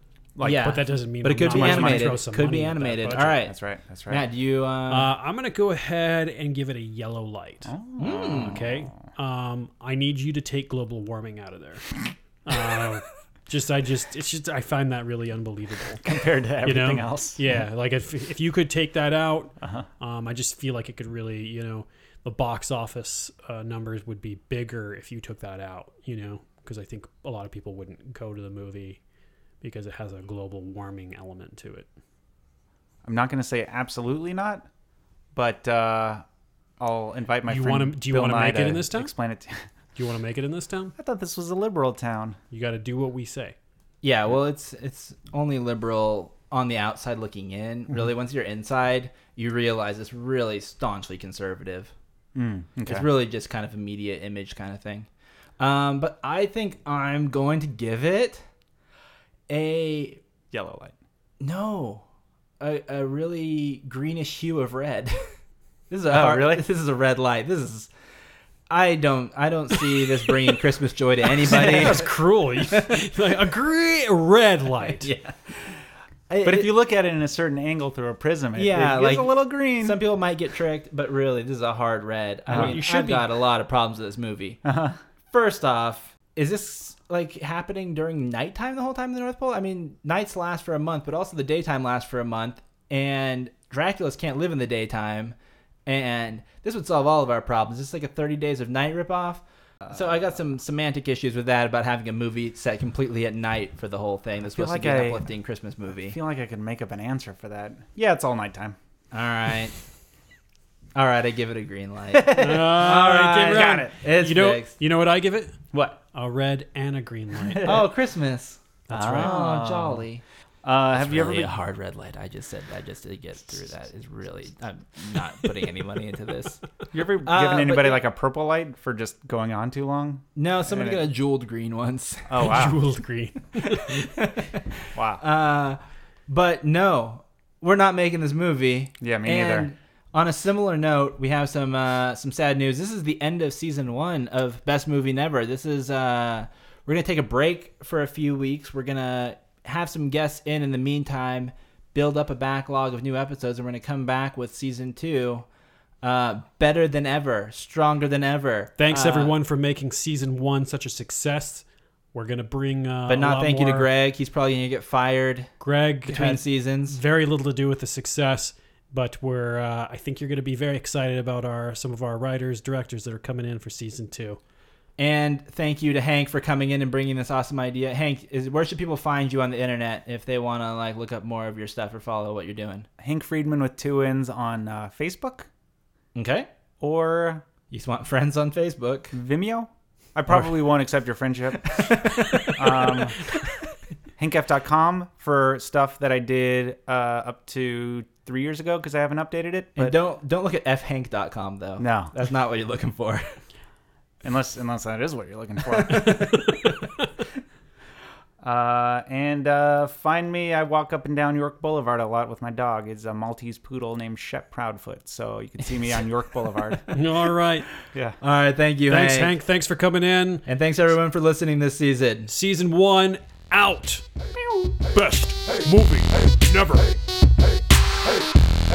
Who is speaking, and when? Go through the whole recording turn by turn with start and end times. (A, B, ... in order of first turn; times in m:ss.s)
0:00.4-0:00.8 A
0:00.4-0:03.5 B
0:00.6-0:03.4 C
0:01.5-0:02.1 A
0:03.4-0:04.2 A
0:04.1-0:05.1 B
0:04.9-0:16.0 C
0:07.6-0:09.0 A
0:08.0-0:08.6 B
0:16.0-0:17.4 A
0:16.6-0:29.0 C
0:29.6-0:31.9 C
0:33.0-0:34.7 A
0:35.4-0:36.2 A
0:36.8-0:39.6 A
0:37.5-0:39.1 C
0:40.0-0:41.0 C
0:41.0-0:42.4 A
0:42.5-0:43.6 C
0:44.0-0:51.9 B
0:52.4-0:53.1 A
0:52.9-0:55.1 B
0:55.6-0:58.4 B
0:59.5-1:00.2 B
1:00.5-1:01.0 A
1:01.4-1:02.0 B
1:02.6-1:05.3 B
1:05.9-1:07.9 B
1:06.1-1:06.6 A
1:08.7-1:12.1 B
1:11.4-1:15.1 C
1:11.8-1:12.0 A
1:12.7-1:13.1 B
1:14.9-1:16.7 B
1:16.4-1:20.0 A
1:18.6-1:24.6 B
1:22.5-1:22.8 A
1:22.5-1:23.2 C
1:24.6-1:25.0 A
1:25.3-1:46.2 B
1:44.5-1:45.3 A
1:46.1-1:48.8 A
1:49.1-1:49.8 B
1:51.0-1:54.8 B
1:52.3-1:57.8 C
1:53.3-1:53.9 A
1:55.7-1:56.0 A
1:57.6-2:00.2 B
1:58.9-1:59.4 C
1:58.9-2:00.1 A
2:00.6-2:01.5 A
2:00.9-2:06.6 B
2:06.9-2:11.0 A
2:07.2-2:08.0 B
2:10.4-2:12.5 B
2:12.3-2:12.8 A
2:12.4-2:14.1 C
2:13.6-2:14.6 B
2:14.9-2:15.2 A
2:15.2-2:35.5 B
2:19.0-2:19.7 A
2:36.0-2:39.4 B
2:38.8-2:43.9 C
2:43.1-2:45.5 B
2:45.6-2:54.4 C
2:46.1-2:47.0 B
2:55.0-3:02.9 B
3:03.0-3:05.5 A
3:06.2-3:06.5 B
3:06.8-3:07.4 A
3:07.7-3:09.1 B
3:09.1-3:11.9 A
3:10.3-3:10.6 B
3:11.7-3:13.1 B
3:12.5-3:13.2 A
3:14.2-3:20.0 A
3:19.8-3:23.2 B
3:21.8-3:22.1 A
3:24.2-3:26.2 A
3:25.7-3:26.5 B
3:28.4-3:36.9 A
3:36.9-3:37.7 C
3:38.2-3:39.3 B
3:38.9-3:40.5 C
3:40.4-3:42.3 B
3:42.3-3:44.0 C
3:44.7-3:47.0 C